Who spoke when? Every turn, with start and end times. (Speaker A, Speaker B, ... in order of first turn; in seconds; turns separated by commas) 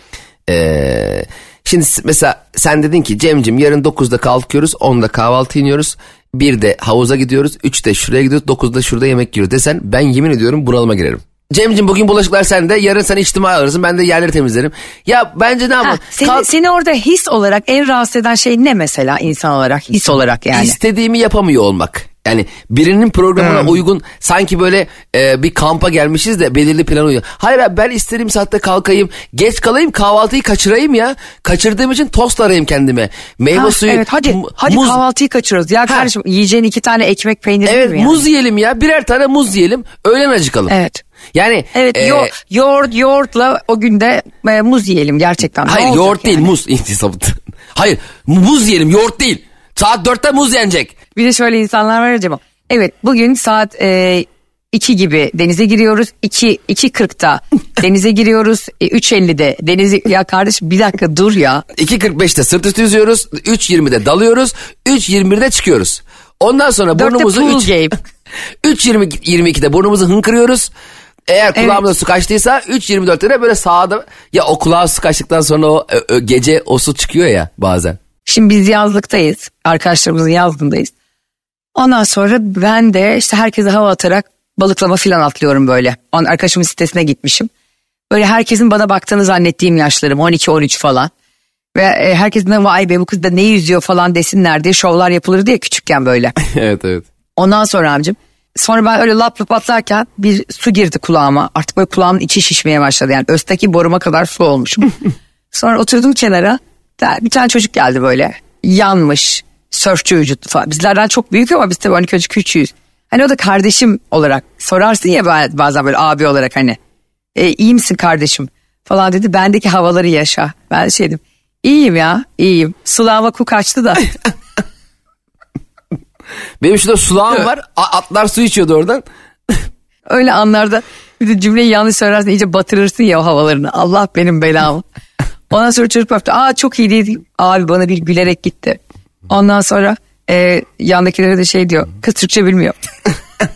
Speaker A: 0.5-16.5, Speaker B: 15.8-20.8, Speaker A: 20.5-35.0, Speaker B: 33.5-38.2, Speaker A: 37.6-40.7, Speaker B: 40.7-41.0, Speaker A: 41.3-42.3, Speaker B: 41.7-46.5, Speaker A: 45.6-50.9, Speaker B: 51.1-61.6, Speaker A: 61.7-67.7, Speaker B: 66.9-67.9, Speaker A: 68.6-70.7, Speaker A: 71.3-78.0, Speaker B: 71.5-71.8, Speaker B: 78.2-80.9, Speaker B: 81.7-87.5, Speaker B: 88.1-91.1, Speaker B: 91.7-96.3, Speaker A: 96.4-97.0, Speaker B: 97.4-104.9, Speaker B: 105.5-116.8, Speaker B: 117.3-124.1, Speaker A: 126.6-129.6, Speaker B: 130.1-134.8, Speaker B: 135.5-142.8